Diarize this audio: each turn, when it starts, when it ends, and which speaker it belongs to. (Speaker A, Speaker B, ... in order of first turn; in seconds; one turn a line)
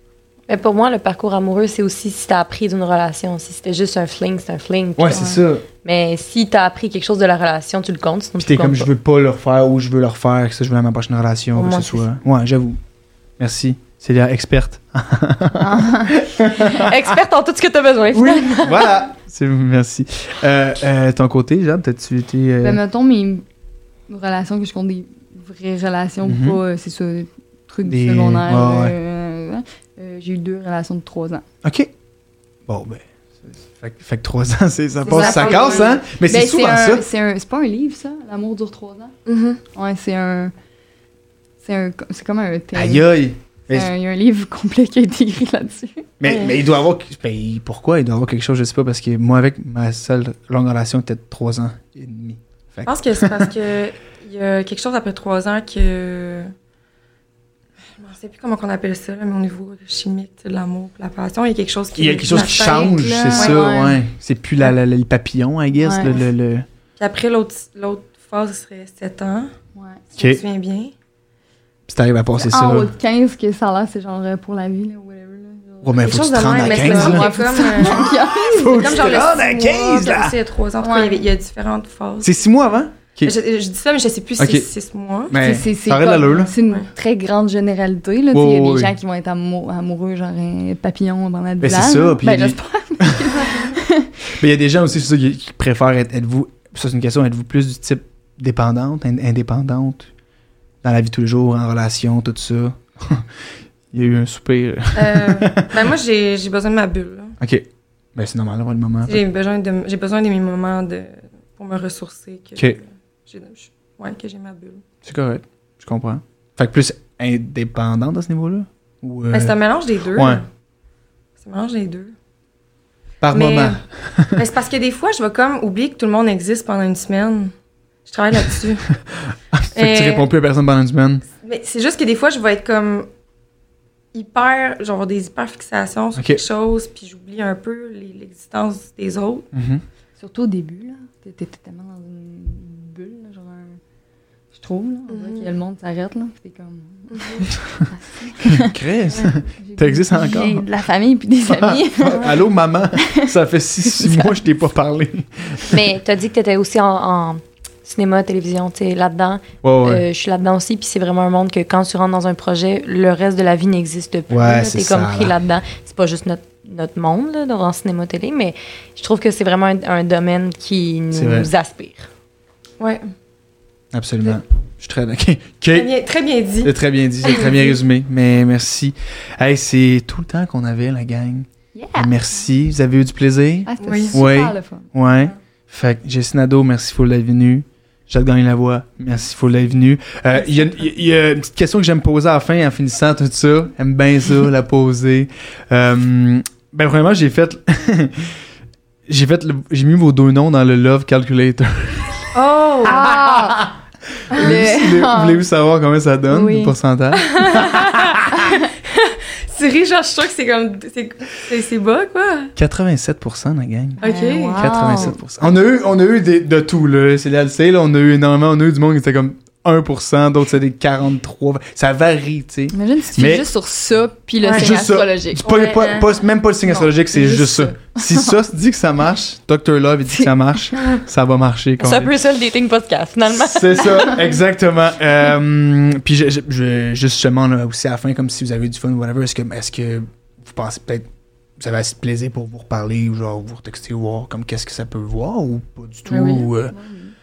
Speaker A: 0.5-8.9
Speaker B: 5.0-5.7
Speaker C: 5.1-5.4
Speaker B: 8.4-12.8
Speaker A: 11.5-12.1
Speaker B: 13.4-16.9
Speaker C: 15.6-16.9
Speaker A: 16.8-18.9
Speaker B: 18.1-22.8
Speaker C: 22.6-23.4
Speaker C: 24.1-31.4
Speaker B: 26.2-26.6
Speaker B: 27.9-28.9
Speaker B: 31.6-31.9
Speaker B: 32.7-37.0
Speaker D: 35.0-36.0
Speaker C: 35.1-39.1
Speaker D: 39.3-39.6
Speaker C: 39.7-40.5
Speaker C: 41.6-43.1
Speaker B: 42.8-43.9
Speaker C: 43.7-46.1
Speaker B: 46.2-53.5
Speaker D: 46.2-46.5
Speaker D: 52.9-56.5
Speaker D: 58.0-63.7
Speaker B: 62.0-66.7
Speaker C: 63.3-64.0
Speaker C: 65.7-66.2
Speaker D: 67.0-69.5
Speaker D: 70.1-70.9
Speaker B: 71.9-72.9
Speaker C: 72.4-79.2
Speaker B: 75.8-77.3
Speaker D: 76.0-82.4
Speaker B: 78.5-80.3
Speaker C: 80.8-81.3
Speaker B: 82.2-83.3
Speaker D: 83.2-85.4
Speaker B: 84.4-84.7
Speaker B: 85.3-86.5
Speaker C: 85.4-94.1
Speaker D: 86.6-86.9
Speaker B: 88.3-88.9
Speaker B: 91.6-93.3
Speaker B: 94.3-100.1
Speaker B: 100.8-103.3
Speaker B: 103.9-105.7
Speaker D: 105.0-107.4
Speaker B: 107.4-109.2
Speaker D: 109.0-114.8
Speaker B: 115.0-119.6
Speaker D: 119.3-120.5
Speaker B: 120.1-120.4
Speaker D: 121.4-122.1
Speaker B: 123.2-124.4
Speaker D: 123.3-123.8
Speaker D: 124.3-127.5
Speaker D: 128.1-128.9
Speaker B: 129.5-131.2
Speaker D: 129.8-130.3
Speaker D: 131.4-133.1
Speaker D: 134.1-139.5
Speaker B: 136.2-136.4
Speaker B: 139.5-139.8
Speaker C: 140.2-143.8
Speaker C: 144.5-148.8
Speaker D: 145.1-145.5
Speaker D: 147.1-147.4
Speaker B: 148.4-150.7
Speaker C: 149.5-152.4
Speaker B: 151.5-155.8
Speaker C: 153.0-153.3
Speaker C: 153.8-154.4
Speaker A: 155.7-172.1
Speaker B: 159.6-160.1
Speaker B: 164.3-165.3
Speaker B: 171.1-171.5
Speaker D: 172.8-173.1
Speaker B: 173.9-175.9
Speaker D: 175.7-176.7
Speaker B: 176.6-198.3
Speaker D: 177.2-177.8
Speaker C: 181.8-182.2
Speaker C: 183.7-184.9
Speaker D: 183.8-184.2
Speaker B: 199.1-202.3
Speaker D: 202.3-203.0
Speaker C: 202.8-203.7
Speaker B: 202.8-208.5
Speaker C: 204.3-205.4
Speaker C: 206.3-206.7
Speaker D: 207.2-212.5
Speaker C: 208.4-208.7
Speaker B: 212.6-214.0
Speaker C: 214.0-215.2
Speaker D: 214.0-214.8
Speaker B: 214.6-223.5
Speaker C: 222.7-225.4
Speaker D: 224.4-224.7
Speaker B: 224.5-232.2
Speaker D: 225.4-226.1
Speaker C: 226.8-228.3
Speaker A: 231.8-234.1
Speaker B: 233.3-241.1
Speaker B: 241.6-246.7
Speaker D: 246.1-246.5
Speaker C: 246.7-247.2